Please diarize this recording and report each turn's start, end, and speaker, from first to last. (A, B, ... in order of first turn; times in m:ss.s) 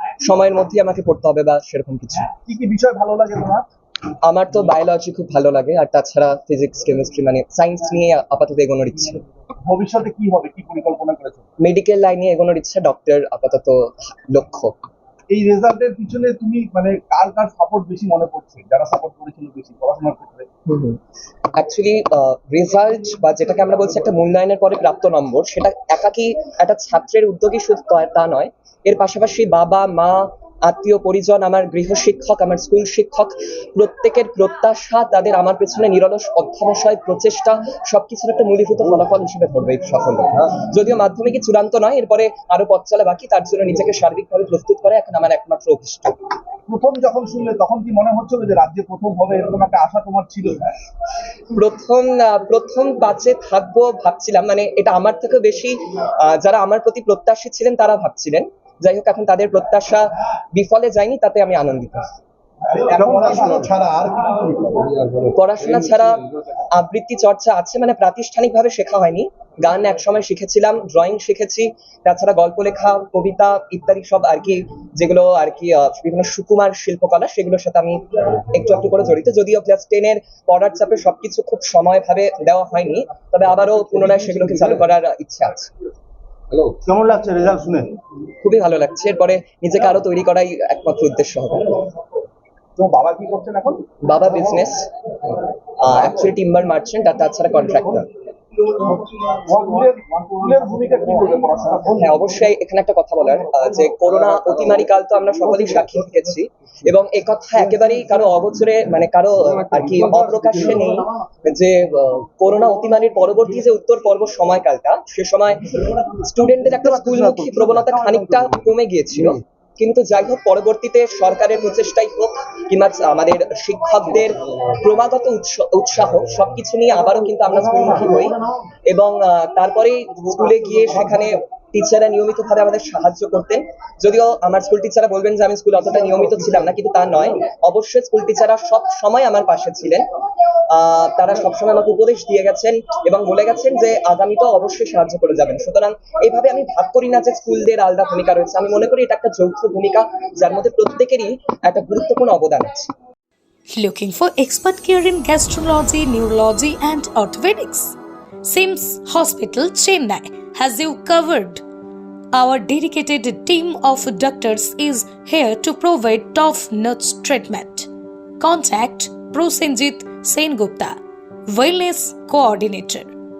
0:00.2-0:02.3 A
0:02.4-0:03.7 B
0:04.2-0:09.2 A
0:09.6-0:11.4 B
0:11.6-0:14.7 A
0:15.3-0:20.5 B
0:20.7-0:21.0 A
0:21.6-0:46.1 A
0:46.7-0:50.6 B
0:51.5-1:02.1 A
1:02.7-1:04.9 B
1:05.3-1:06.2 A
1:06.7-1:25.7 A
1:26.7-1:28.0 B
1:28.4-1:31.7 A
1:32.8-1:34.6 B
1:34.0-1:34.9 A
1:35.8-1:38.1 A
1:39.5-1:42.2 B
1:41.9-2:08.4 A
1:56.8-1:58.6 B
2:08.9-2:20.0 A
2:20.7-2:32.9 A
2:33.7-2:41.6 C
2:42.3-2:47.9 C
2:48.4-2:51.0 C
2:51.5-2:53.1 C